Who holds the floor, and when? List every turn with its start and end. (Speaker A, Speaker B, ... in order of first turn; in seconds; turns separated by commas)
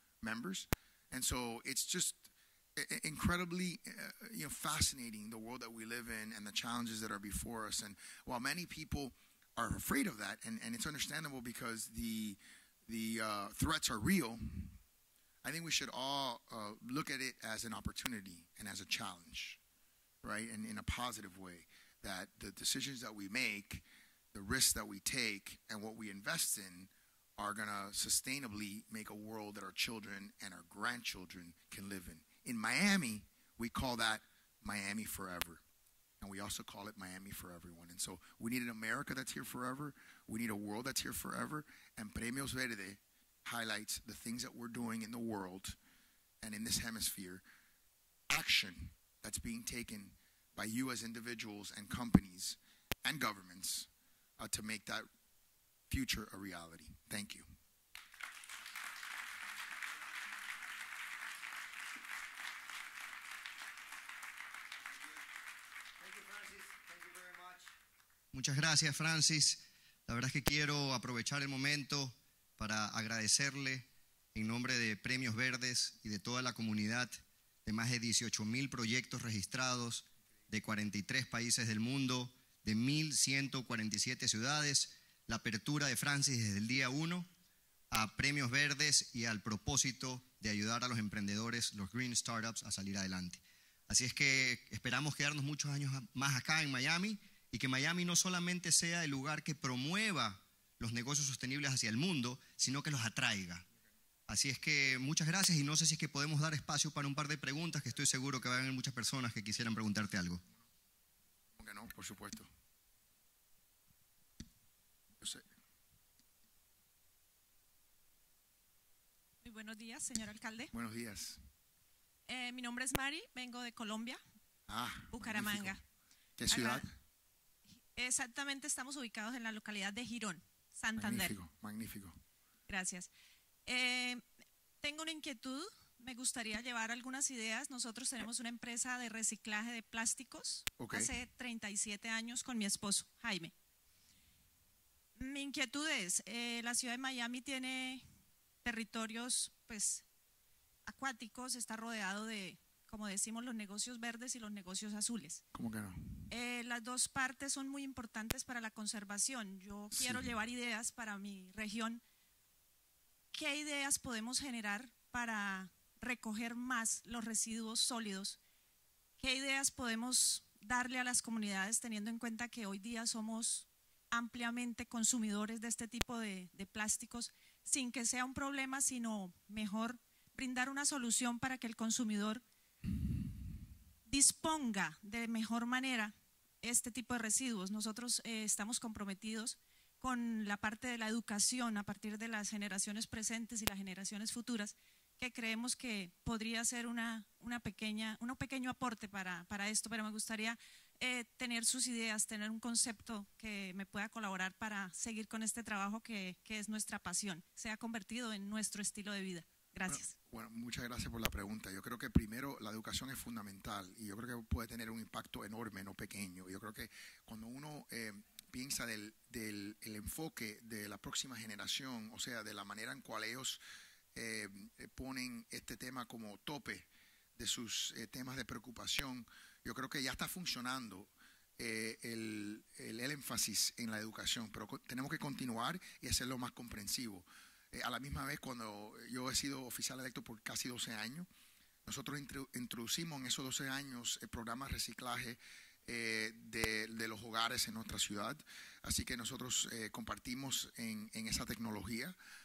Speaker A: 0.2-14.7, Speaker A: 15.4-19.6, Speaker A: 20.2-35.6, Speaker A: 36.2-45.8, Speaker A: 46.4-47.4, Speaker A: 48.3-53.9, Speaker A: 54.4-55.1, Speaker A: 55.9-57.5, Speaker B: 68.3-87.3, Speaker B: 87.9-103.6, Speaker B: 104.3-110.4, Speaker A: 111.6-112.5, Speaker C: 119.4-120.7, Speaker A: 120.7-121.4, Speaker C: 122.3-124.2, Speaker A: 124.7-125.8, Speaker C: 125.1-125.8, Speaker A: 126.4-126.9, Speaker C: 126.5-126.8, Speaker C: 128.0-131.3, Speaker A: 131.0-132.2, Speaker C: 132.7-133.1, Speaker C: 133.7-134.2, Speaker C: 134.8-143.5, Speaker A: 140.8-141.1, Speaker C: 145.2-148.0, Speaker C: 148.6-150.0, Speaker C: 150.8-155.4, Speaker A: 155.5-156.2, Speaker C: 156.3-162.0, Speaker A: 159.9-160.3, Speaker C: 163.3-168.4, Speaker C: 169.2-182.4, Speaker C: 184.1-210.1, Speaker A: 209.9-223.6, Speaker A: 224.1-241.3, Speaker A: 241.8-252.2